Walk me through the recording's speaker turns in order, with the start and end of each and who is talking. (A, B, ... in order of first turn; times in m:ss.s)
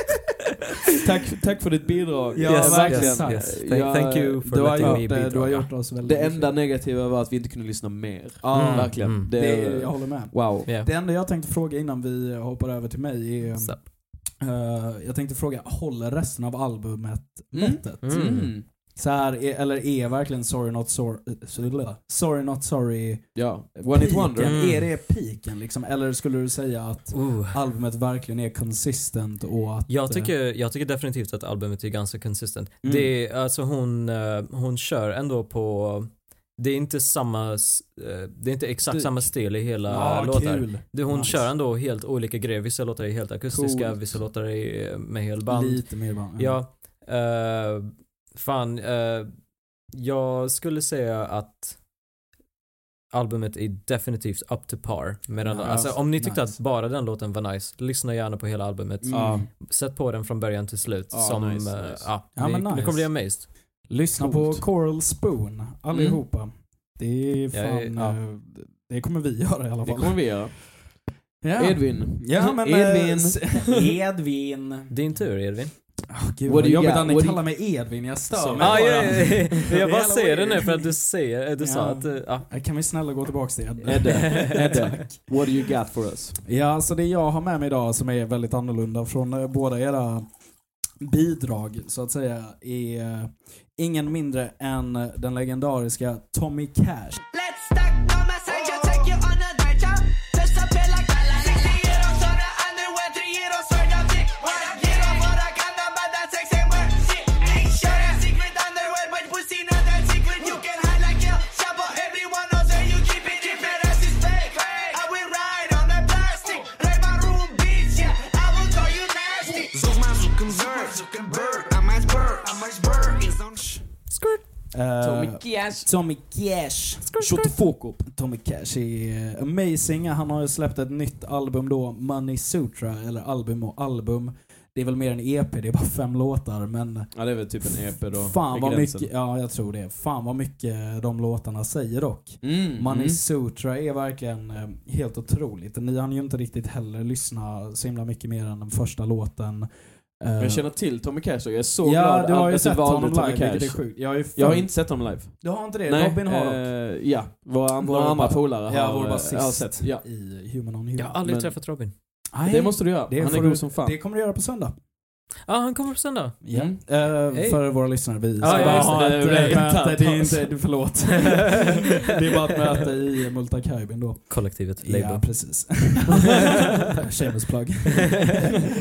0:01.0-0:05.0 A
0:02.3-0:03.9 B
0:02.4-0:05.7 C
0:04.4-0:06.5 B
0:06.0-0:10.7 A
0:08.4-0:30.3 B
0:08.5-0:09.3 C
0:17.5-0:18.6 A
0:18.0-0:18.6 C
0:23.3-0:24.6 A
0:24.4-0:24.9 C
0:27.1-0:27.6 C
0:29.9-0:49.3 C
0:32.8-0:33.1 B
0:39.9-0:41.5 B
0:43.5-0:43.9 A
0:45.5-0:46.6 B
0:49.9-0:51.8 C
0:53.1-1:03.7 C
0:55.4-0:56.6 B
0:59.0-0:59.5 B
0:59.1-0:59.5 A
1:01.1-1:02.1 A
1:02.4-1:10.6 B
1:04.2-1:04.6 A
1:05.9-1:06.2 A
1:07.5-1:08.1 C
1:09.8-1:10.9 A
1:11.4-1:14.9 B
1:11.6-1:13.8 A
1:14.9-1:15.8 C
1:16.1-1:20.9 B
1:16.4-1:17.4 A
1:18.4-1:19.5 A
1:18.5-1:22.5 C
1:21.6-1:25.1 B
1:23.8-1:26.4 A
1:24.3-1:24.9 C
1:26.4-1:30.3 B
1:31.0-1:37.2 B
1:37.3-2:03.6 D
2:04.1-2:04.4 C
2:04.7-2:30.7 B
2:05.0-2:05.9 A
2:07.1-2:07.5 C
2:07.2-2:08.0 A
2:17.1-2:19.1 A
2:22.4-2:23.2 A
2:30.4-2:40.0 A
2:31.8-2:36.7 B
2:37.8-2:41.2 B
2:41.0-2:41.9 C
2:41.2-2:41.7 A
2:42.3-2:44.7 B
2:42.4-2:44.0 A
2:45.5-2:46.4 C
2:46.4-2:58.4 B
2:46.5-2:46.8 A
2:47.3-2:49.9 C
2:48.4-2:50.6 A
2:51.3-2:51.6 C
2:54.3-2:55.8 C